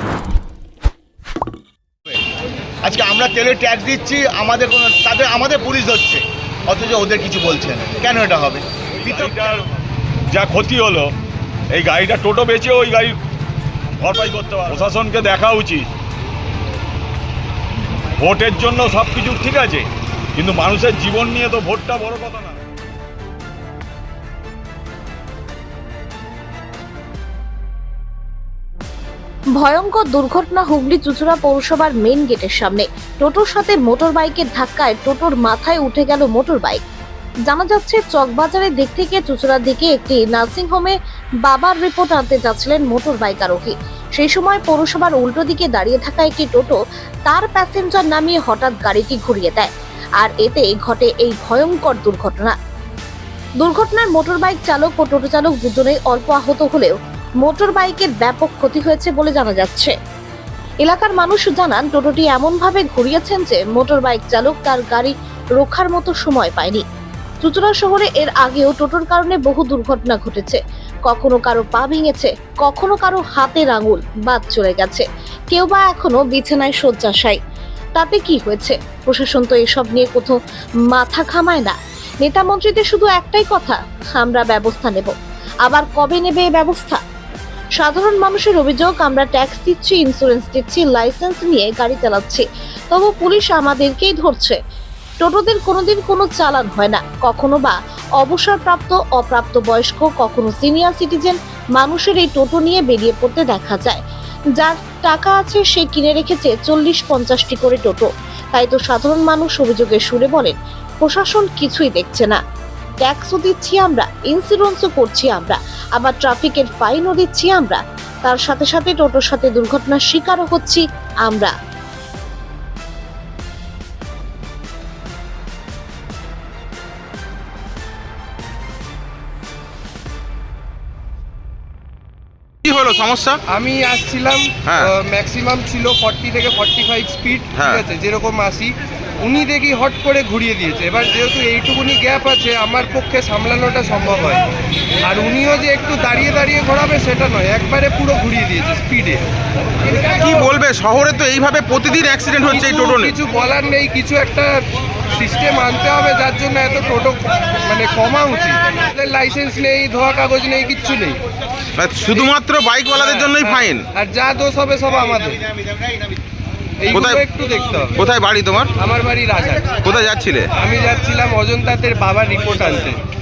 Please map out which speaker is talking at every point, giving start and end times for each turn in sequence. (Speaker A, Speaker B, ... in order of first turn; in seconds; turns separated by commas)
Speaker A: 2.9-8.6, Speaker B: 9.0-9.6, Speaker B: 10.3-11.1, Speaker B: 11.7-13.1, Speaker B: 14.0-15.9, Speaker B: 18.2-22.6, Speaker C: 29.6-36.8, Speaker C: 37.5-46.8, Speaker C: 47.3-52.5, Speaker C: 53.6-59.9, Speaker C: 60.8-66.8, Speaker C: 67.4-77.4, Speaker C: 78.0-80.4, Speaker C: 80.9-85.1, Speaker C: 85.6-87.0, Speaker C: 87.8-94.6, Speaker C: 95.2-104.0, Speaker C: 104.6-112.4, Speaker C: 113.0-121.5, Speaker D: 132.6-133.4, Speaker E: 133.5-144.5, Speaker D: 137.5-137.8, Speaker E: 145.0-149.2, Speaker D: 150.1-153.1, Speaker E: 152.5-161.2, Speaker D: 161.8-163.8, Speaker E: 162.9-165.5, Speaker E: 166.8-168.1, Speaker D: 166.9-167.2, Speaker D: 168.0-168.7, Speaker E: 168.8-169.8, Speaker D: 169.8-170.5, Speaker E: 170.6-173.0